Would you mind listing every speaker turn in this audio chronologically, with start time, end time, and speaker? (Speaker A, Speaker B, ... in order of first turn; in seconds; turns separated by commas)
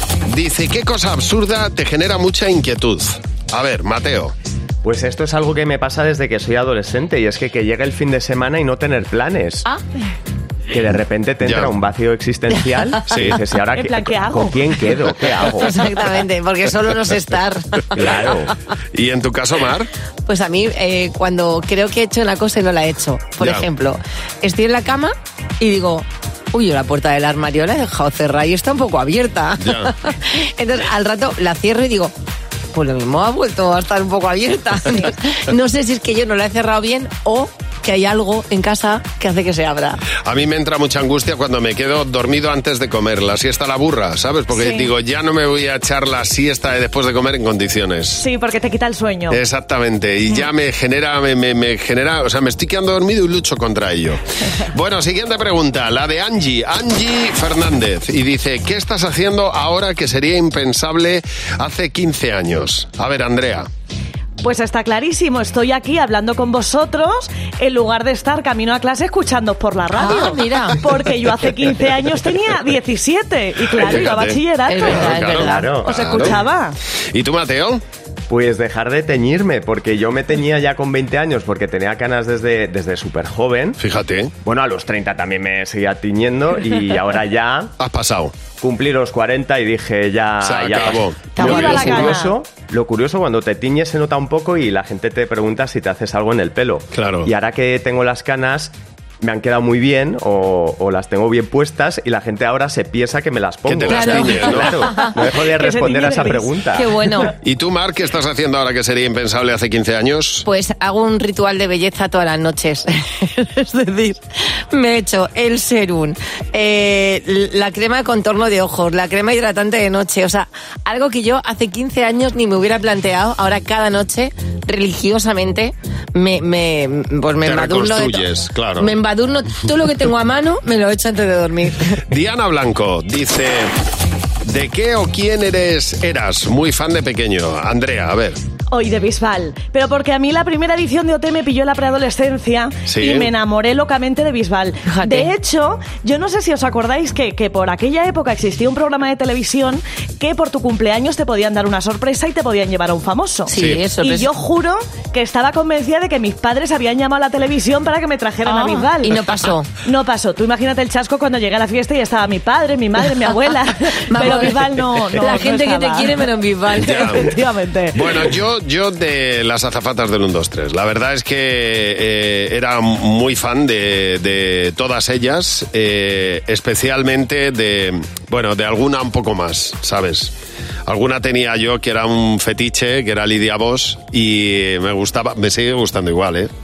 Speaker A: 0.3-4.3, Speaker B: 4.8-9.7, Speaker B: 10.7-15.8, Speaker A: 11.4-11.7, Speaker A: 13.0-13.4, Speaker C: 13.7-14.7, Speaker D: 15.4-18.1, Speaker B: 17.9-18.5, Speaker A: 18.9-19.9, Speaker D: 20.2-32.1, Speaker A: 23.4-23.7, Speaker A: 29.6-29.9, Speaker D: 32.7-40.0, Speaker A: 40.2-48.2, Speaker C: 44.5-44.9, Speaker C: 48.2-49.4, Speaker A: 49.3-63.7, Speaker C: 64.4-75.1, Speaker D: 69.9-70.8, Speaker A: 73.7-76.4, Speaker D: 74.7-75.7, Speaker B: 74.9-76.0, Speaker C: 75.8-76.8, Speaker A: 77.1-77.8, Speaker B: 78.3-83.8, Speaker A: 83.8-84.3, Speaker B: 84.4-87.7, Speaker A: 87.8-88.3, Speaker B: 88.6-106.9, Speaker A: 90.4-92.0, Speaker D: 91.3-92.1, Speaker C: 91.4-92.3, Speaker A: 96.9-97.3, Speaker A: 103.6-104.8, Speaker D: 103.9-105.2, Speaker C: 104.8-106.5, Speaker D: 106.7-107.3, Speaker A: 107.4-110.5, Speaker D: 110.4-132.0, Speaker A: 127.4-129.0, Speaker A: 132.1-133.7, Speaker A: 134.4-138.4, Speaker C: 138.7-159.2, Speaker A: 142.8-143.3, Speaker D: 144.8-145.3, Speaker D: 153.5-154.3, Speaker A: 153.6-153.8, Speaker D: 158.4-159.7, Speaker C: 159.8-166.3, Speaker D: 164.1-167.2, Speaker A: 166.8-167.3, Speaker C: 166.8-168.3, Speaker A: 167.9-180.3, Speaker A: 180.8-186.5